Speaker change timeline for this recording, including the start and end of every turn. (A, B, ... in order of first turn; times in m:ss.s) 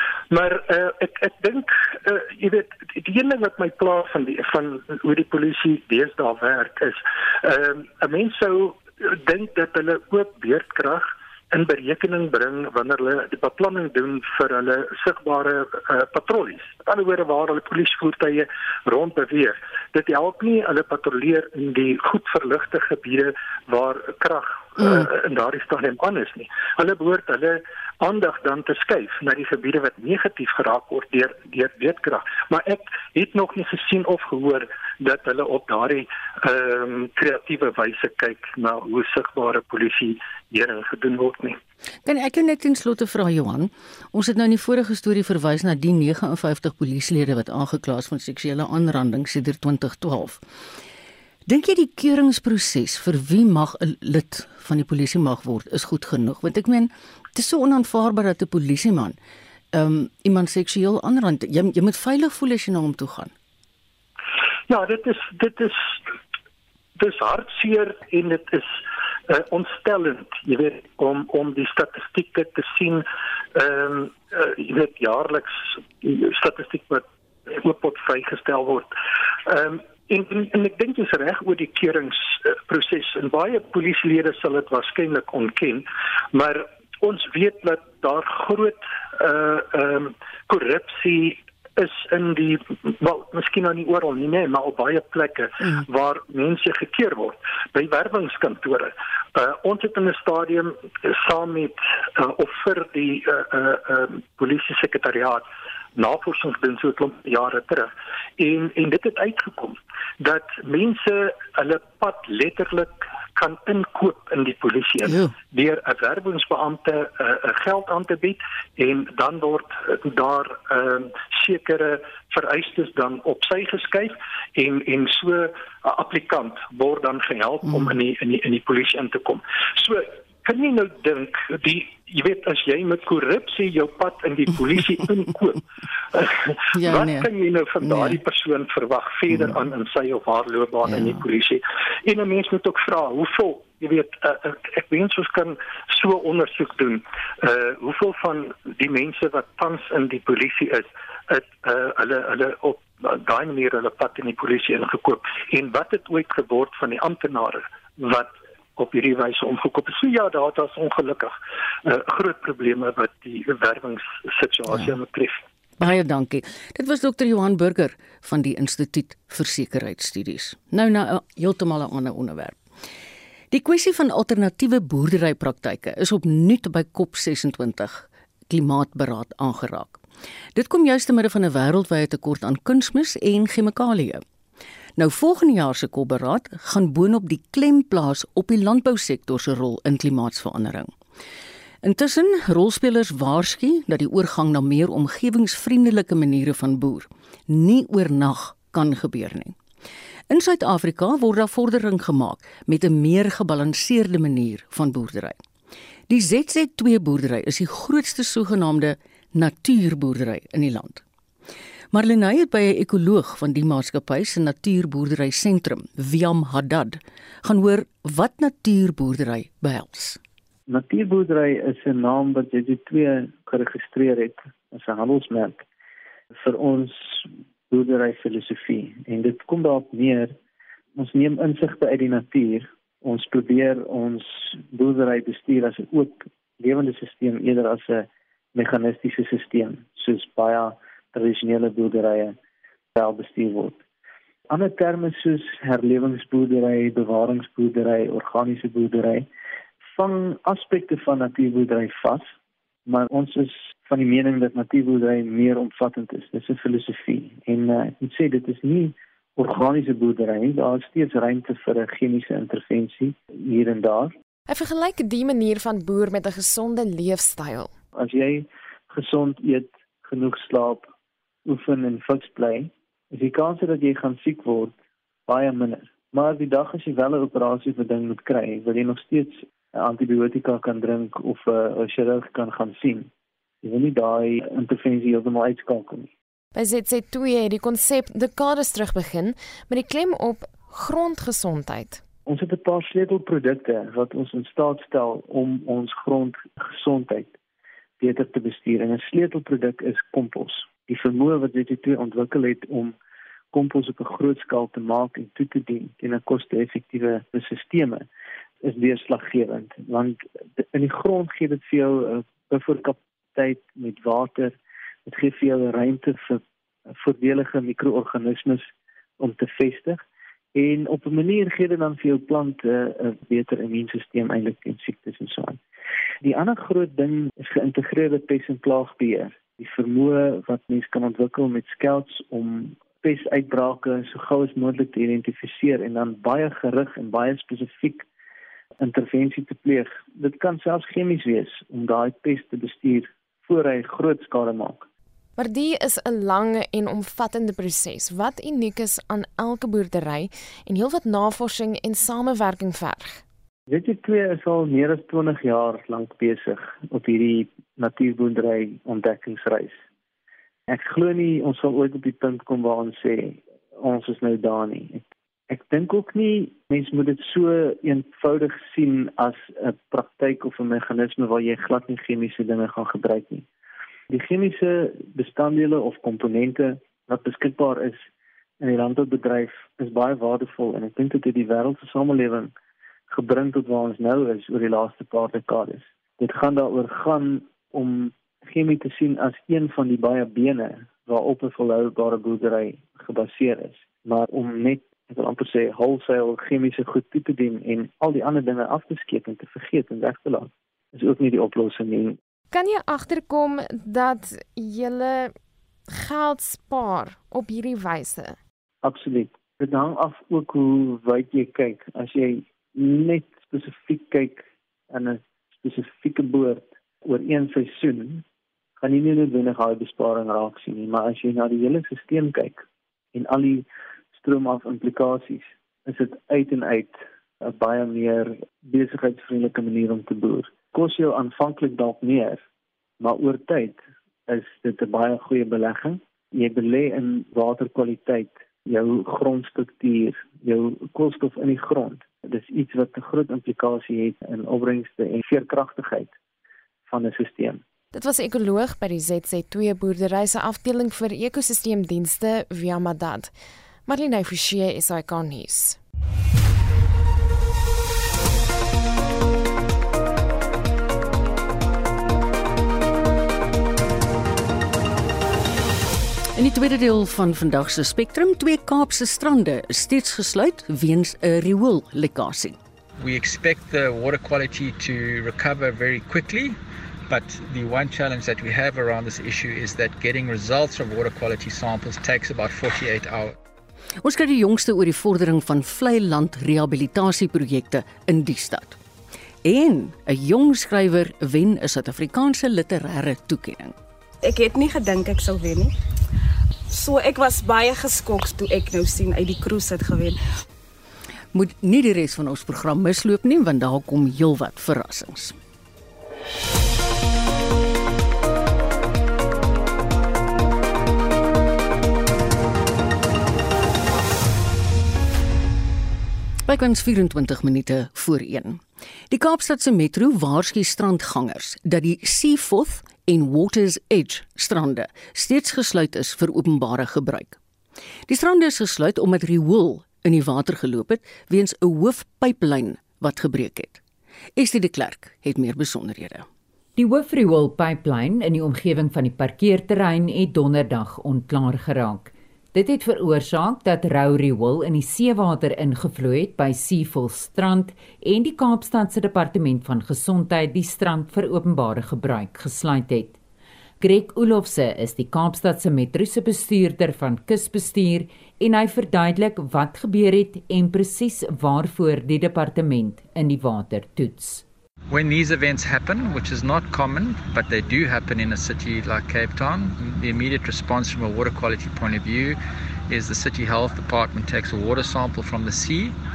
0:00.3-0:41.6 A
0:24.8-0:25.1 B
0:42.0-0:50.4 B
0:51.5-0:59.2 B
0:59.7-1:03.3 B
1:04.7-1:06.0 A
1:07.0-1:08.8 A
1:09.3-1:18.9 A
1:19.4-2:15.6 A
1:55.0-1:55.3 B
2:16.1-2:45.4 A
2:16.8-2:17.3 B
2:17.8-2:18.2 B
2:20.9-2:21.2 B
2:45.8-2:52.6 B
2:53.5-3:00.0 B
3:00.6-3:04.2 B
3:05.0-3:10.9 B
3:11.8-3:19.6 B
3:20.3-3:25.4 B
3:26.1-3:31.0 B
3:31.9-3:40.2 B
3:40.7-3:45.6 C
3:46.4-3:50.4 C
3:51.0-4:02.4 C
4:03.0-4:03.8 C
4:04.5-4:09.3 C
4:10.0-4:12.3 C
4:12.9-4:24.1 C
4:24.5-4:27.7 D
4:28.0-4:30.9 C
4:31.5-4:34.7 C
4:35.3-4:43.1 C
4:43.6-4:46.1 C
4:46.6-4:52.0 D
4:52.3-4:57.4 C
4:58.0-5:03.0 C
5:03.5-5:08.1 C
5:08.6-5:18.7 C
5:19.2-5:20.0 C
5:20.6-5:25.6 C
5:26.2-5:38.1 C
5:38.8-5:44.9 C
5:45.4-5:53.2 D
5:53.7-5:59.8 C
6:00.7-6:13.4 C
6:14.1-6:18.0 C
6:18.6-6:22.5 C
6:23.1-6:42.2 C
6:42.5-6:45.3 D
6:45.9-6:48.4 D
6:48.8-6:58.2 C
6:58.8-7:02.6 C
7:03.1-7:12.4 C
7:13.0-7:26.1 C
7:26.9-7:27.6 C
7:27.9-7:35.8 D
7:46.4-7:52.6 B
7:53.0-7:56.6 E
7:57.1-8:03.4 E
8:04.0-8:08.8 B
8:09.4-8:13.8 B
8:14.2-8:15.7 F
8:16.7-8:20.2 F
8:21.3-8:25.4 B
8:36.5-8:47.4 B
8:48.1-8:53.8 B
8:54.4-8:56.3 B
8:56.8-9:13.2 G
9:13.8-9:24.4 G
9:24.9-9:32.4 E
9:32.9-9:36.0 E